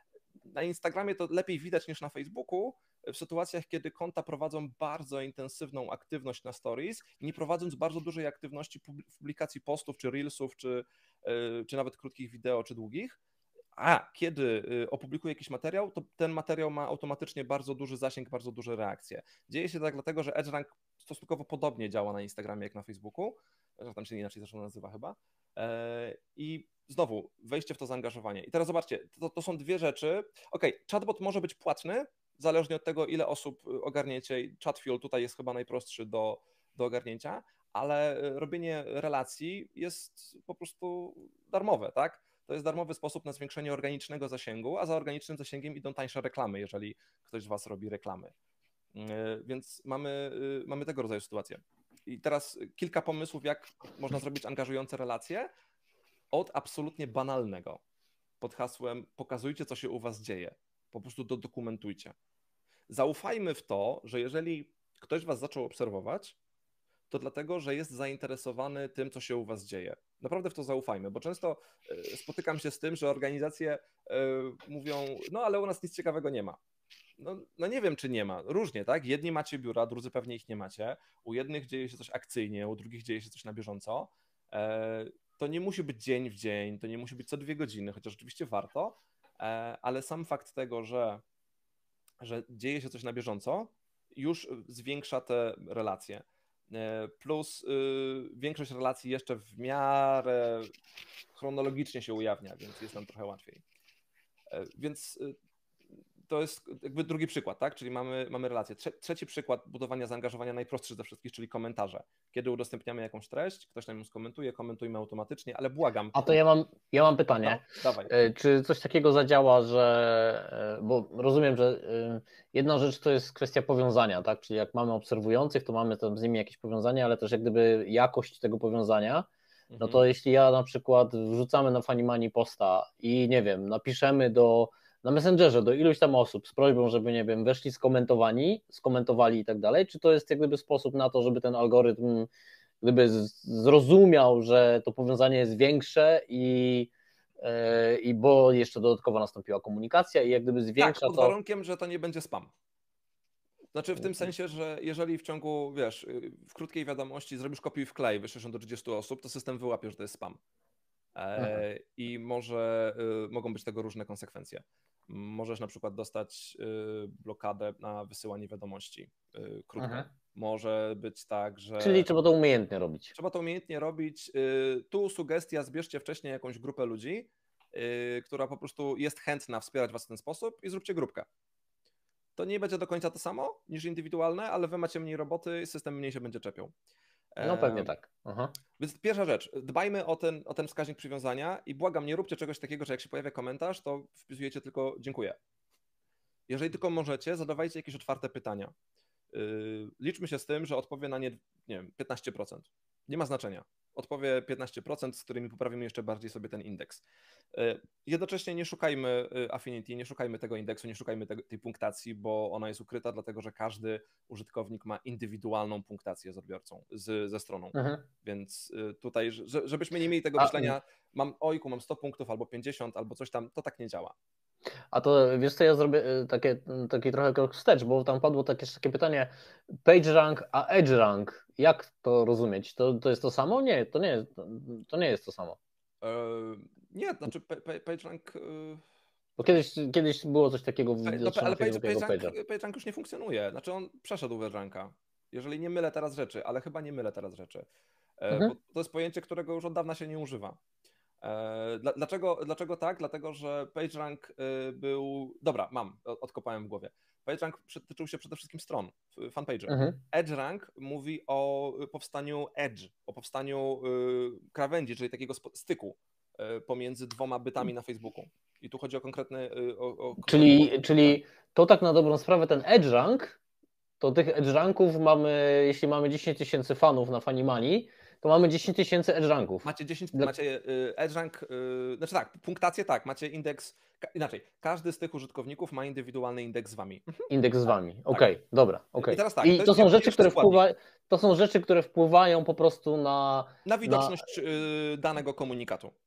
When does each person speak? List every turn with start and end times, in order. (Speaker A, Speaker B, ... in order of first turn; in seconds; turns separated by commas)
Speaker A: 0.4-13.2, Speaker A: 13.7-48.3, Speaker A: 48.9-55.5, Speaker A: 56.3-57.8, Speaker A: 58.4-62.1, Speaker A: 62.9-66.3, Speaker A: 67.1-76.6, Speaker A: 77.2-91.2, Speaker A: 92.2-100.7, Speaker A: 101.3-103.6, Speaker A: 104.5-105.3, Speaker A: 106.2-116.2, Speaker B: 116.1-129.3, Speaker A: 117.4-118.1, Speaker A: 129.7-130.0, Speaker B: 129.8-142.3, Speaker B: 142.8-151.3, Speaker A: 150.8-152.5, Speaker A: 153.7-160.4, Speaker A: 161.1-172.1, Speaker B: 161.3-161.6, Speaker B: 169.8-170.1, Speaker B: 171.8-173.1, Speaker A: 173.1-181.3, Speaker A: 182.3-186.7, Speaker A: 187.3-187.9, Speaker B: 187.4-188.5, Speaker A: 188.8-195.4, Speaker A: 196.5-198.7, Speaker A: 199.3-224.1, Speaker B: 217.7-218.1, Speaker B: 220.4-220.7, Speaker B: 224.9-229.3, Speaker B: 229.8-235.6, Speaker A: 236.0-238.8, Speaker B: 239.4-242.3, Speaker A: 241.0-247.7, Speaker A: 248.2-250.6, Speaker A: 251.2-270.7, Speaker B: 259.7-260.0, Speaker B: 270.2-273.4, Speaker B: 274.0-280.3, Speaker A: 279.6-287.3, Speaker B: 287.3-294.2, Speaker A: 289.0-290.6, Speaker A: 293.6-295.9